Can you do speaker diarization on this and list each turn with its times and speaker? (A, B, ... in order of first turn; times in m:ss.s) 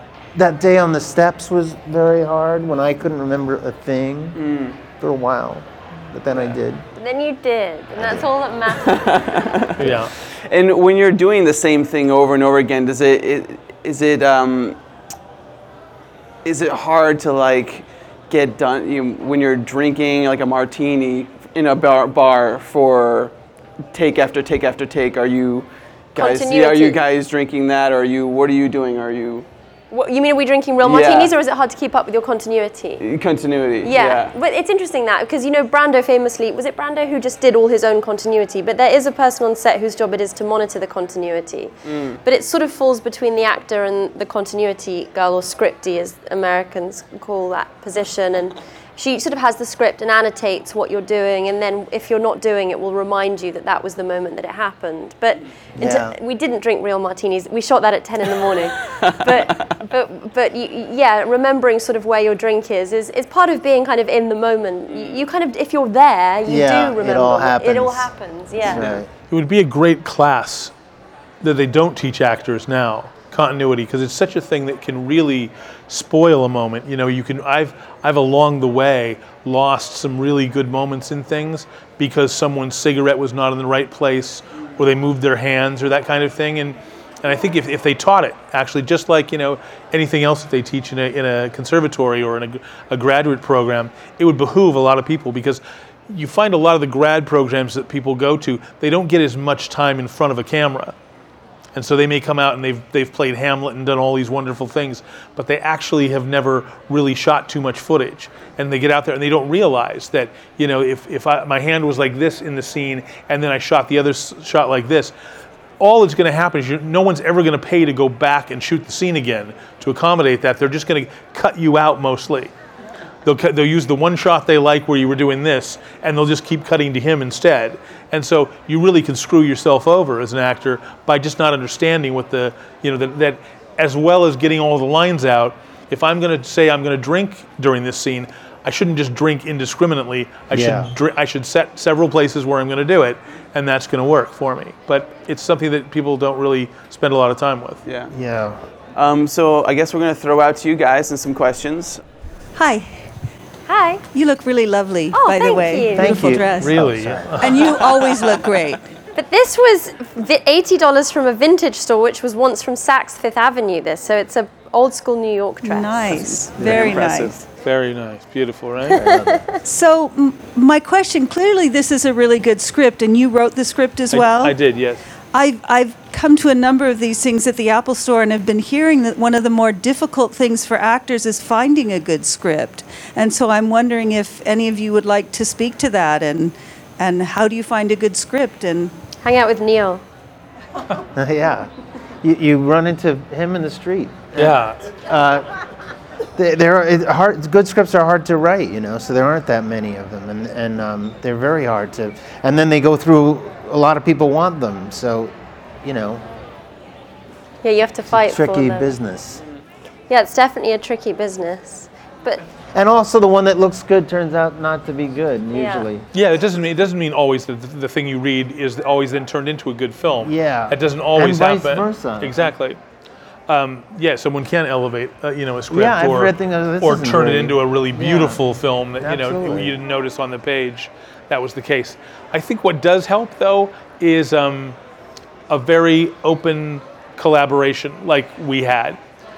0:00.4-0:04.4 A
0:04.4-0:04.8 B
0:05.0-0:06.8 A
0:07.0-0:09.1 C
0:08.0-0:08.2 A
0:08.7-0:14.8 B
0:09.8-0:10.1 D
0:16.4-0:23.4 B
0:23.9-0:29.5 B
0:26.2-0:27.0 C
0:29.9-0:33.0 C
0:30.8-0:31.3 B
0:33.0-0:34.3 B
0:33.8-1:09.0 C
0:41.8-0:42.2 B
0:55.8-0:56.2 A
0:58.9-0:59.7 B
1:04.9-1:05.2 B
1:06.5-1:08.1 A
1:08.6-1:09.1 A
1:09.3-1:10.7 D
1:11.4-1:41.0 D
1:41.8-1:55.1 D
1:55.8-2:02.5 D
2:03.2-2:27.8 D
2:20.5-2:20.9 A
2:27.8-2:28.1 B
2:28.1-2:28.6 A
2:29.0-2:32.0 B
2:32.6-2:33.1 E
2:33.7-2:34.0 C
2:34.1-2:36.8 E
2:35.1-2:36.3 C
2:36.0-2:37.6 A
2:36.6-2:37.6 D
2:37.4-2:38.9 E
2:39.2-2:46.2 C
2:45.6-2:47.5 E
2:46.1-2:47.3 B
2:46.6-2:46.9 A
2:47.6-2:49.0 D
2:48.9-2:49.5 A
2:49.0-2:49.6 C
2:49.6-2:54.6 E
2:54.1-2:55.0 D
2:55.3-3:08.9 E
3:09.2-3:10.0 C
3:11.2-3:11.7 A
3:12.2-3:15.5 A
3:14.4-3:14.8 D
3:16.4-3:26.2 A
3:27.6-3:28.9 C
3:28.1-3:29.4 A
3:30.1-3:32.4 C
3:32.7-3:36.1 A
3:35.5-3:35.9 C
3:36.1-3:42.8 D
3:40.2-3:42.5 A
3:43.5-3:54.8 D
3:45.7-3:48.4 A
3:49.0-3:49.8 A
3:55.5-3:59.0 D